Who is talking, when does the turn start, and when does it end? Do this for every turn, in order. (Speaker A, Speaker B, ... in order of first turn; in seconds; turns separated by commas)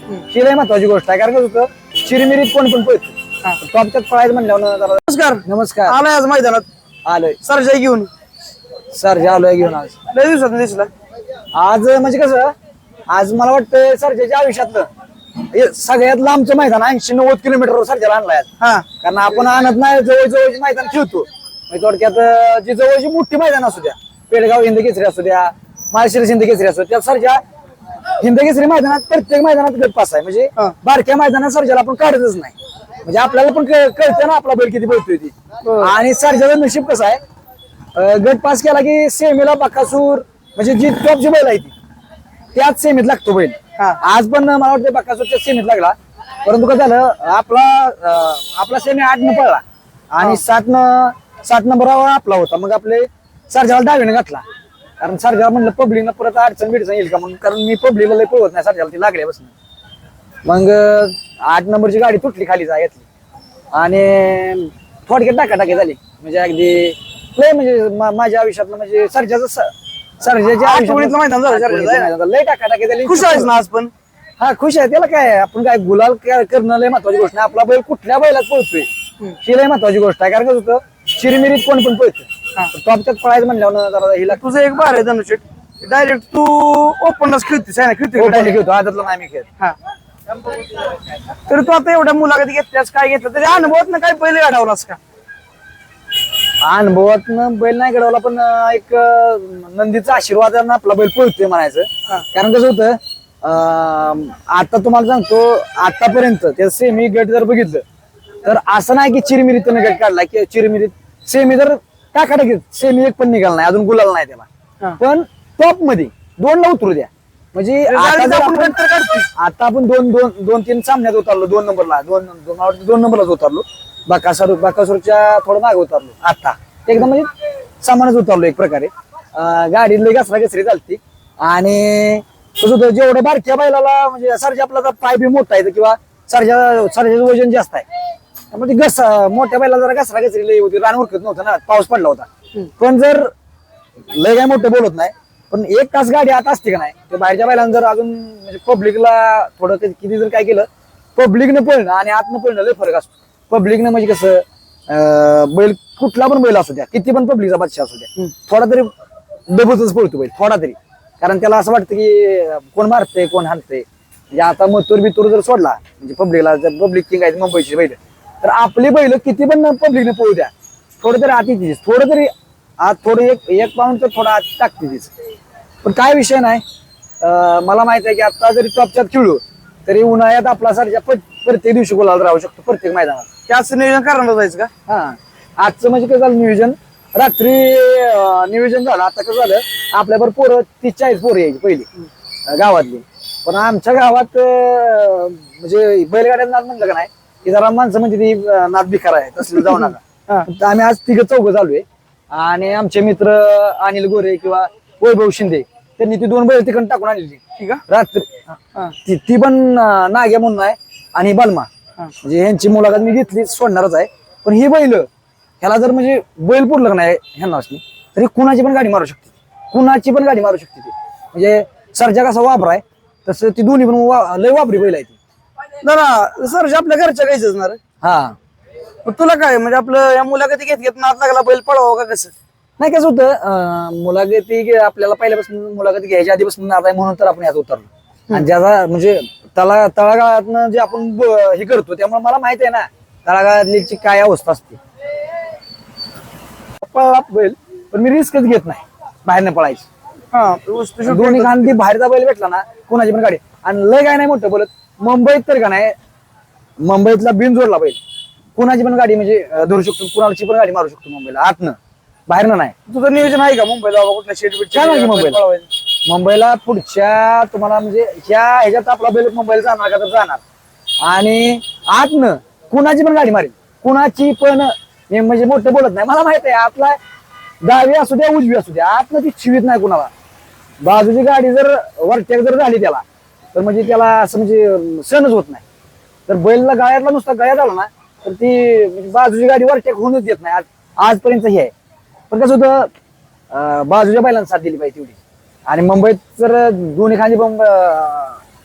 Speaker A: 0.3-6.0, Speaker B: 5.0-6.7, Speaker A: 7.0-7.4, Speaker B: 7.4-8.1, Speaker A: 8.9-10.0, Speaker B: 10.1-10.9, Speaker A: 11.5-12.5, Speaker A: 13.1-14.9, Speaker A: 15.4-27.4, Speaker B: 18.6-18.9, Speaker A: 28.2-37.2, Speaker B: 35.6-35.9, Speaker A: 38.0-41.7, Speaker A: 42.5-54.4, Speaker A: 55.0-59.5, Speaker A: 60.5-63.0, Speaker A: 63.7-73.5, Speaker B: 70.6-72.1, Speaker B: 73.0-73.9, Speaker A: 74.4-78.9, Speaker A: 79.4-84.4, Speaker B: 84.3-88.6, Speaker A: 88.2-89.5, Speaker B: 91.5-95.0, Speaker A: 96.6-107.8, Speaker A: 108.4-114.5, Speaker A: 115.0-118.8, Speaker B: 117.8-119.3, Speaker A: 119.3-127.3, Speaker A: 127.8-137.9, Speaker A: 138.5-143.3, Speaker A: 144.1-158.9, Speaker A: 159.5-175.1, Speaker A: 175.8-176.6, Speaker A: 177.2-183.3, Speaker B: 183.5-184.7, Speaker A: 184.9-191.9, Speaker A: 192.5-208.5, Speaker B: 199.7-200.5, Speaker A: 209.0-211.7, Speaker A: 212.2-215.1, Speaker A: 215.6-225.2, Speaker B: 225.8-227.8, Speaker A: 228.0-228.4, Speaker B: 229.1-232.3, Speaker A: 232.8-244.8, Speaker A: 246.8-249.9, Speaker B: 250.3-251.8, Speaker A: 251.1-255.9, Speaker A: 256.8-258.0, Speaker A: 258.6-262.8, Speaker B: 262.9-265.7, Speaker A: 264.7-265.4, Speaker A: 266.1-270.4, Speaker A: 271.0-277.0, Speaker A: 277.6-280.1, Speaker A: 280.8-283.0, Speaker A: 283.5-285.6, Speaker A: 286.3-291.7, Speaker A: 292.3-292.9, Speaker A: 293.5-298.4